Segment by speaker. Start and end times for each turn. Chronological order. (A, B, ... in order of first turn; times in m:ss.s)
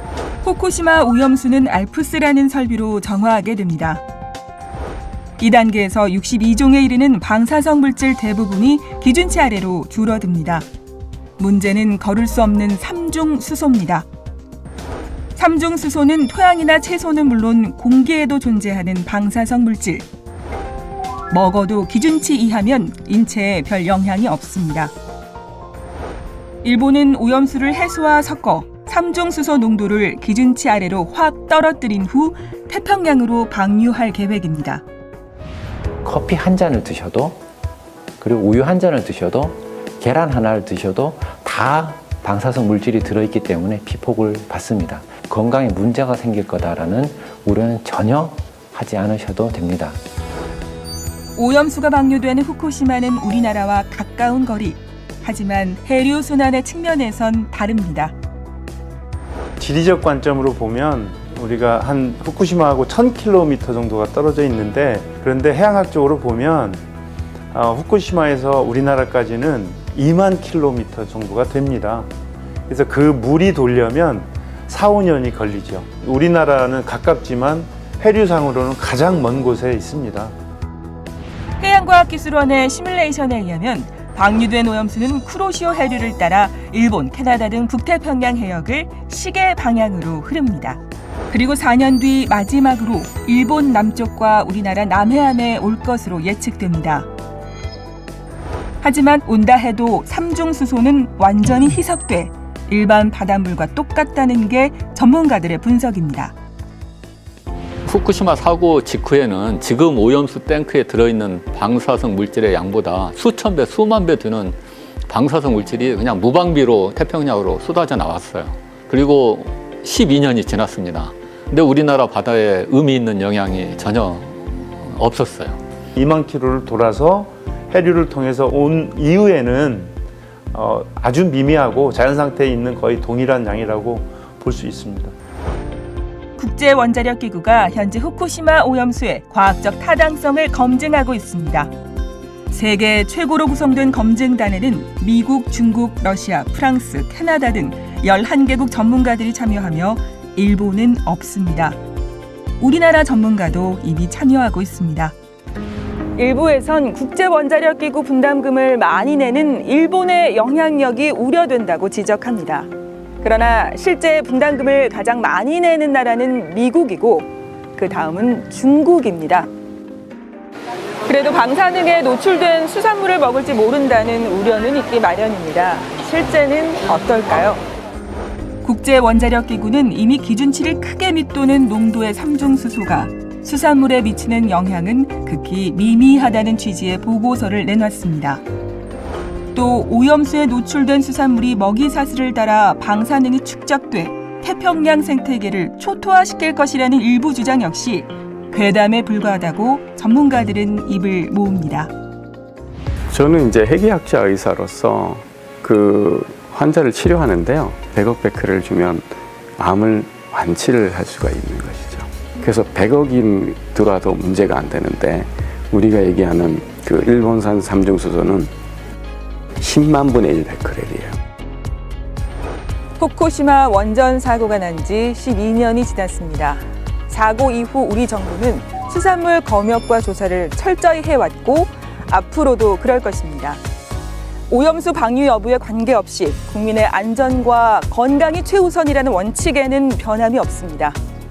0:00.4-0:04.0 A
0:05.4-0:10.6 A
0:11.4-0:14.0 A
0:15.4-0:20.0 A
0:21.3-0:24.9 A
0:26.6-0:34.8 A
0:36.0-0:37.4 B
0:38.2-0:50.0 B
0:51.4-0:58.1 A
0:59.6-1:06.8 C
1:07.5-1:12.1 C
1:12.7-1:20.3 C
1:21.6-1:37.1 A
1:38.8-1:46.3 A
1:47.8-1:54.6 D
1:55.1-2:05.6 D
2:06.0-2:09.9 C
2:10.5-2:15.1 C
2:16.4-2:21.7 A
2:22.5-2:31.8 A
2:32.6-2:35.1 A
2:36.2-2:49.5 A
2:51.0-2:57.6 A
2:58.6-3:08.4 A
3:09.5-3:21.9 A
3:23.1-3:38.5 E
3:39.6-3:41.2 E
3:43.0-3:53.6 A
3:54.5-4:01.0 A